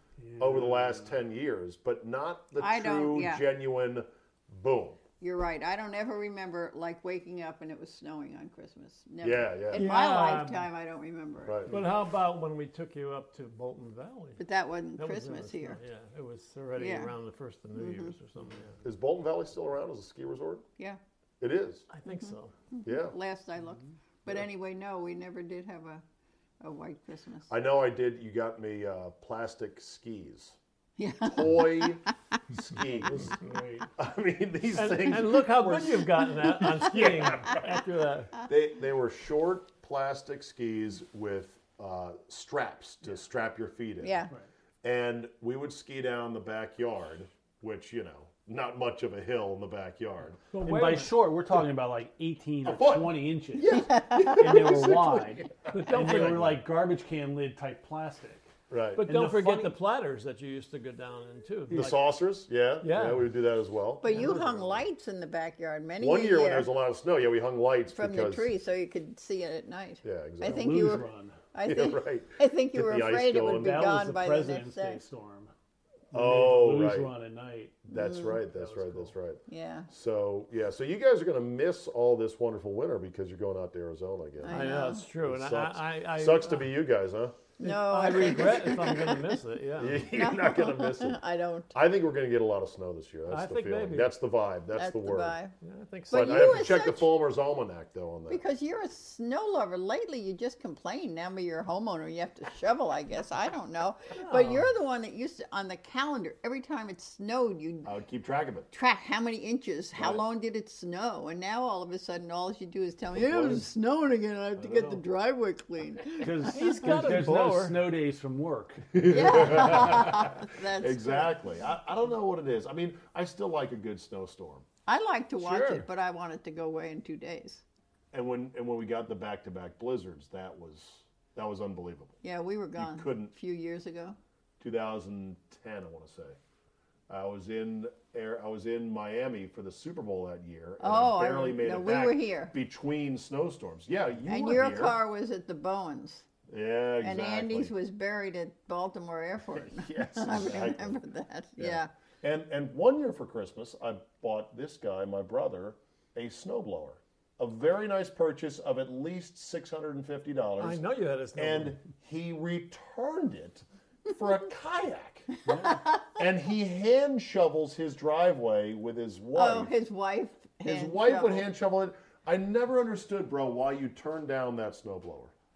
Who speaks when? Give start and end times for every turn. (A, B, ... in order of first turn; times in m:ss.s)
0:00.2-0:01.0 A
0:00.4-0:05.0 B
0:02.6-0:03.4 C
0:05.2-0:11.8 C
0:09.2-0:09.9 B
0:09.7-0:10.7 D
0:11.4-0:11.8 B
0:11.7-0:14.4 D
0:14.4-0:15.8 C
0:15.0-0:18.8 D
0:16.8-0:17.1 C
0:17.8-0:18.1 C
0:18.8-0:20.6 B
0:21.4-0:21.9 B
0:21.9-0:22.5 D
0:22.2-0:26.0 C
0:22.8-0:23.2 B
0:26.6-0:27.5 C
0:27.5-0:30.6 B
0:31.0-0:32.0 C
0:31.2-0:33.4 B
0:33.0-0:33.9 D
0:34.0-0:37.8 B
0:34.7-0:38.3 D
0:38.5-0:44.2 B
0:44.0-0:44.3 C
0:44.8-0:50.4 B
0:50.5-0:51.3 D
0:50.6-0:58.5 A
0:52.6-0:56.6 B
0:53.7-0:54.4 C
0:55.7-0:56.5 D
0:58.7-0:59.0 B
0:59.0-1:02.0 D
0:59.0-0:59.8 A
1:01.7-1:04.8 B
1:02.8-1:03.3 D
1:04.0-1:06.7 C
1:06.0-1:08.5 B
1:07.9-1:15.0 C
1:10.0-1:10.9 B
1:10.4-1:11.4 A
1:11.6-1:13.9 B
1:13.5-1:15.5 A
1:16.1-1:17.9 A
1:16.1-1:17.1 B
1:17.9-1:18.4 C
1:17.9-1:27.4 B
1:18.5-1:19.1 A
1:19.5-1:19.9 C
1:24.4-1:25.0 C
1:24.5-1:26.7 D
1:27.6-1:29.3 C
1:27.6-1:30.0 D
1:29.8-1:31.2 B
1:30.1-1:31.7 C
1:31.7-1:35.4 B
1:33.3-1:34.1 D
1:34.8-1:35.5 C
1:35.6-1:36.6 D
1:36.1-1:37.1 C
1:36.1-1:38.4 B
1:38.3-1:47.9 C
1:44.2-1:44.6 D
1:47.8-1:48.7 B
1:48.7-1:56.7 C
1:50.0-1:50.2 B
1:53.2-1:53.6 B
1:54.6-1:55.0 B
1:56.2-1:58.9 A
1:56.5-1:57.8 D
1:58.9-2:04.6 B
1:59.0-2:01.3 C
2:04.8-2:07.6 C
2:05.4-2:05.8 D
2:08.1-2:12.2 B
2:12.2-2:14.2 C
2:12.8-2:13.3 B
2:14.6-2:16.4 B
2:17.1-2:25.0 B
2:20.8-2:22.5 C
2:24.3-2:26.2 C
2:26.5-2:27.7 B
2:27.0-2:31.9 C
2:29.5-2:31.0 B
2:31.6-2:40.8 B
2:40.6-2:41.8 D
2:41.3-2:45.3 B
2:45.5-2:45.7 A
2:45.7-2:46.0 C
2:46.2-2:49.7 B
2:49.3-2:51.5 C
2:50.6-2:55.3 B